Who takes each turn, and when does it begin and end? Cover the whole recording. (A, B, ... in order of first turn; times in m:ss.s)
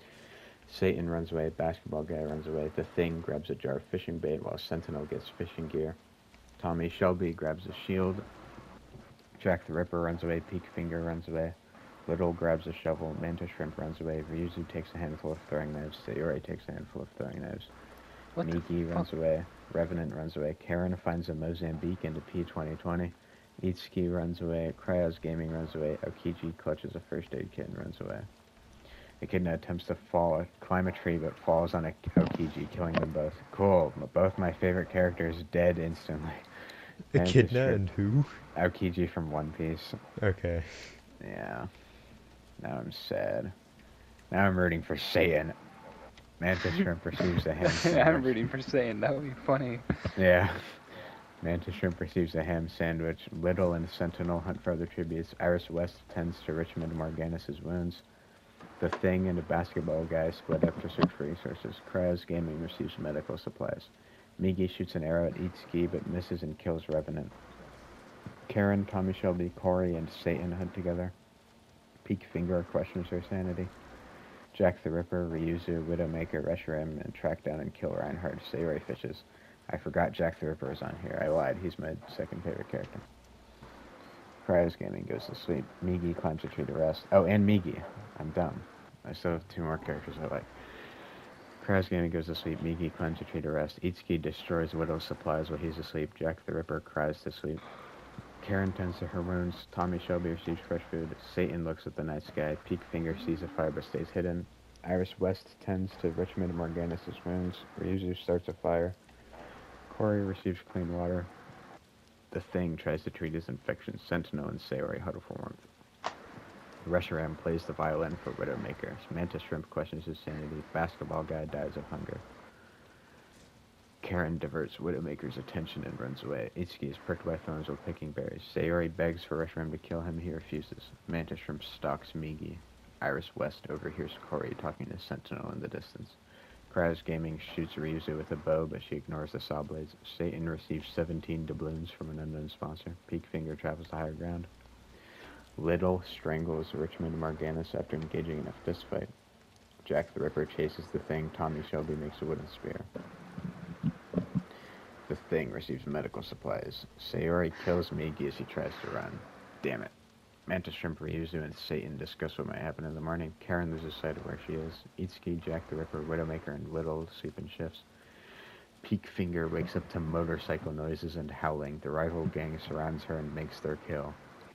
0:00.7-0:06.0 A
0:06.6-0:08.3 A
0:09.4-0:17.7 A
0:18.4-0:19.1 B
0:18.4-0:28.3 A
0:29.2-0:37.9 A
0:37.1-0:38.4 C
0:38.4-0:40.0 A
0:40.2-0:41.0 C
0:41.2-0:41.7 A
0:42.6-0:43.5 A
0:44.3-0:45.6 A
0:46.4-0:48.4 A
0:47.6-0:50.1 B
0:50.1-0:58.0 A
0:58.8-1:07.4 A
1:08.5-1:11.2 A
1:12.0-1:13.7 A
1:14.5-1:23.0 A
1:24.4-1:30.9 A
1:31.6-1:37.6 A
1:38.4-1:49.0 A
1:49.9-1:51.3 A
1:52.3-1:55.7 A
1:56.8-2:02.3 A
2:04.0-2:24.5 A
2:25.6-2:29.1 A
2:29.8-2:32.9 A
2:35.1-2:39.9 A
2:40.5-2:47.9 A
2:48.8-2:54.2 A